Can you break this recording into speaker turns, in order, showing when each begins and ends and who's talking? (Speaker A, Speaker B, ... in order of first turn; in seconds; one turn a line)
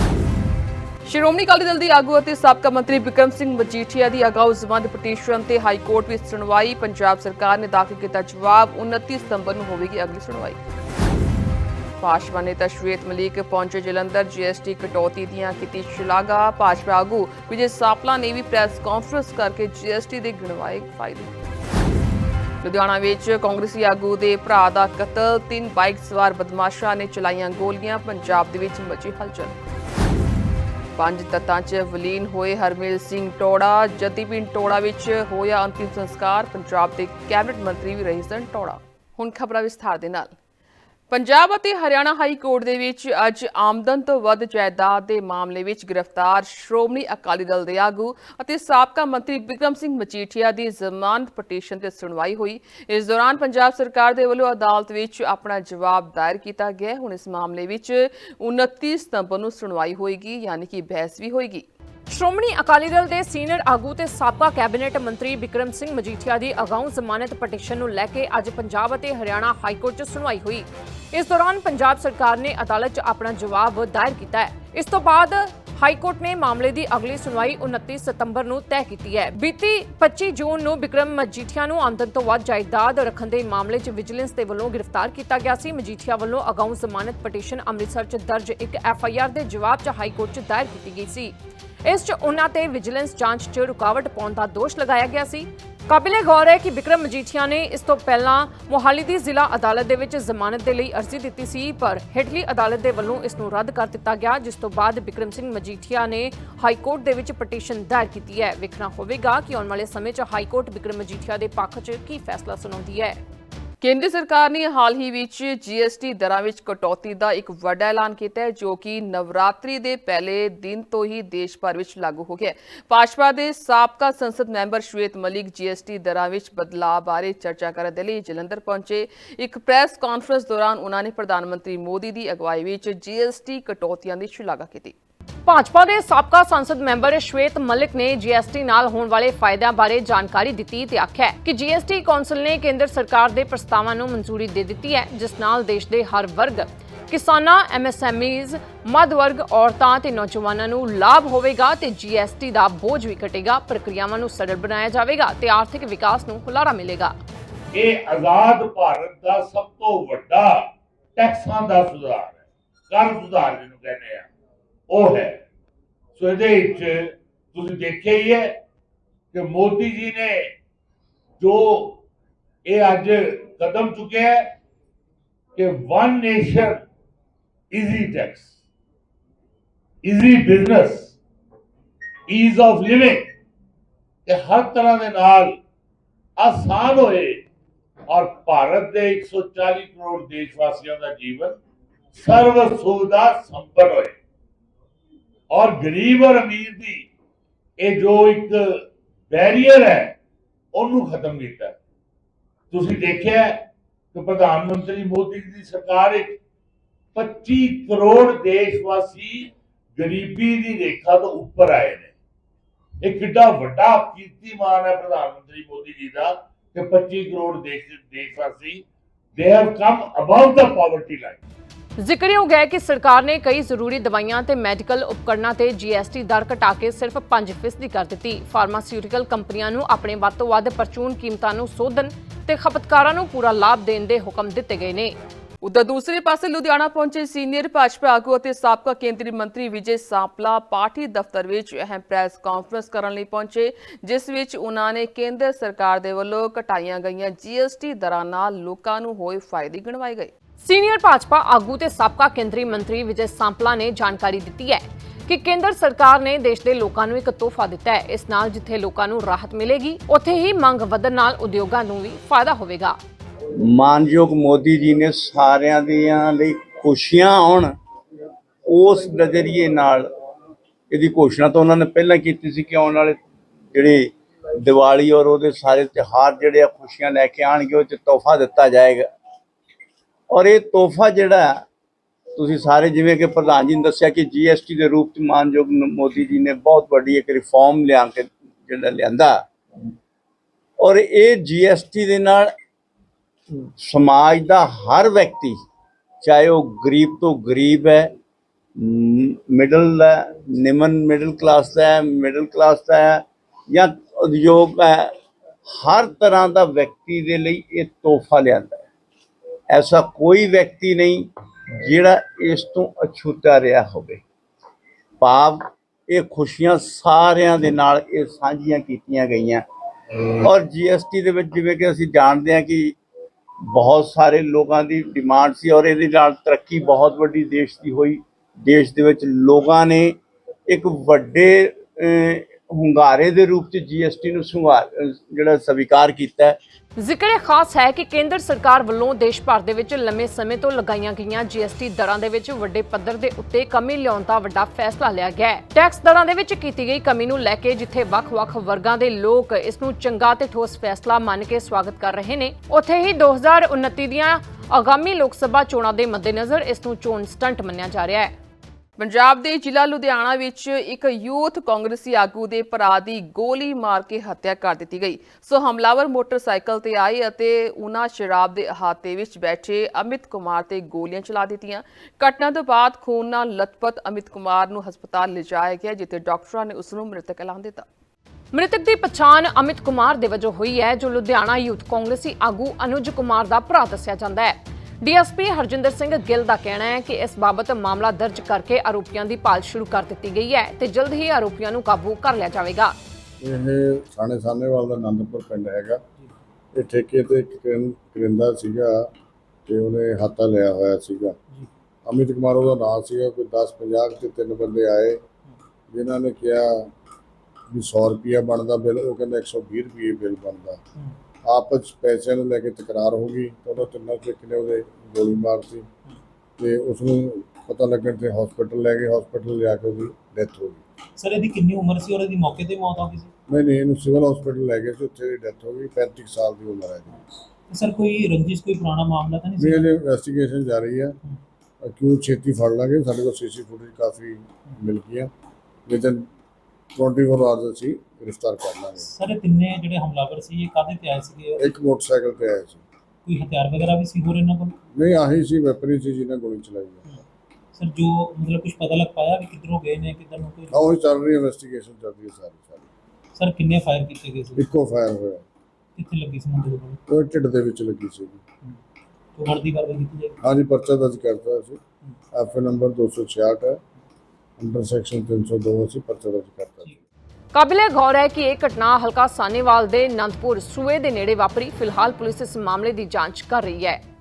Speaker A: 1.1-10.6
Speaker A: 12.0-21.3
Speaker A: 22.6-29.6
Speaker A: 31.0-40.4
Speaker A: 41.1-61.6
Speaker B: 62.1-91.3
Speaker B: 91.9-113.2
Speaker A: 113.8-134.9
Speaker B: 135.5-157.2
Speaker C: 157.7-164.3
Speaker C: 164.9-165.4
Speaker C: 166.2-168.6
Speaker C: 169.3-170.5
Speaker C: 171.4-172.0
Speaker C: 172.7-174.5
Speaker C: 175.6-176.8
Speaker C: 177.7-178.5
Speaker C: 180.0-181.2
Speaker C: 182.3-183.3
Speaker C: 184.3-185.6
Speaker C: 186.4-187.5
Speaker C: 188.1-191.6
Speaker C: 192.2-194.2
Speaker C: 195.5-197.1
Speaker C: 197.8-200.2
Speaker C: 200.7-201.8
Speaker C: 202.7-206.4
Speaker C: 207.2-212.1
Speaker C: 213.0-218.8
Speaker C: 219.4-221.4
Speaker B: 222.0-235.2
Speaker A: 235.6-250.3
Speaker B: 250.6-263.0
Speaker D: 263.6-267.7
Speaker D: 268.7-270.1
Speaker D: 270.9-273.2
Speaker D: 273.7-279.1
Speaker D: 280.3-281.5
Speaker D: 282.4-289.4
Speaker D: 290.8-292.5
Speaker D: 293.8-295.6
Speaker D: 296.2-298.1
Speaker D: 298.8-305.1
Speaker D: 305.7-308.9
Speaker D: 309.7-311.3
Speaker D: 311.8-314.2
Speaker D: 315.2-319.6
Speaker D: 320.4-322.9
Speaker D: 323.7-330.1
Speaker D: 330.7-336.6
Speaker B: 337.0-358.3
Speaker A: 359.0-377.9
Speaker B: 378.5-392.9
Speaker E: 393.4-396.0
Speaker E: 396.7-399.1
Speaker E: 399.7-401.4
Speaker E: 402.1-405.2
Speaker E: 405.9-406.9
Speaker E: 407.7-410.8
Speaker E: 411.4-415.9
Speaker E: 416.6-420.8
Speaker F: 421.2-423.3
Speaker E: 423.5-427.2
Speaker F: 427.7-429.9
Speaker E: 429.6-431.2
Speaker E: 431.8-435.3
Speaker E: 435.9-436.3
Speaker E: 436.9-439.1
Speaker F: 439.0-441.7
Speaker E: 441.6-442.8
Speaker F: 443.2-444.8
Speaker E: 444.9-447.1
Speaker F: 447.8-450.8
Speaker E: 450.7-452.9
Speaker F: 453.4-454.6
Speaker E: 454.6-455.4
Speaker F: 456.0-457.0
Speaker E: 457.1-458.4
Speaker F: 459.4-460.4
Speaker E: 460.4-461.8
Speaker E: 462.3-463.8
Speaker E: 464.6-466.9
Speaker B: 467.5-474.0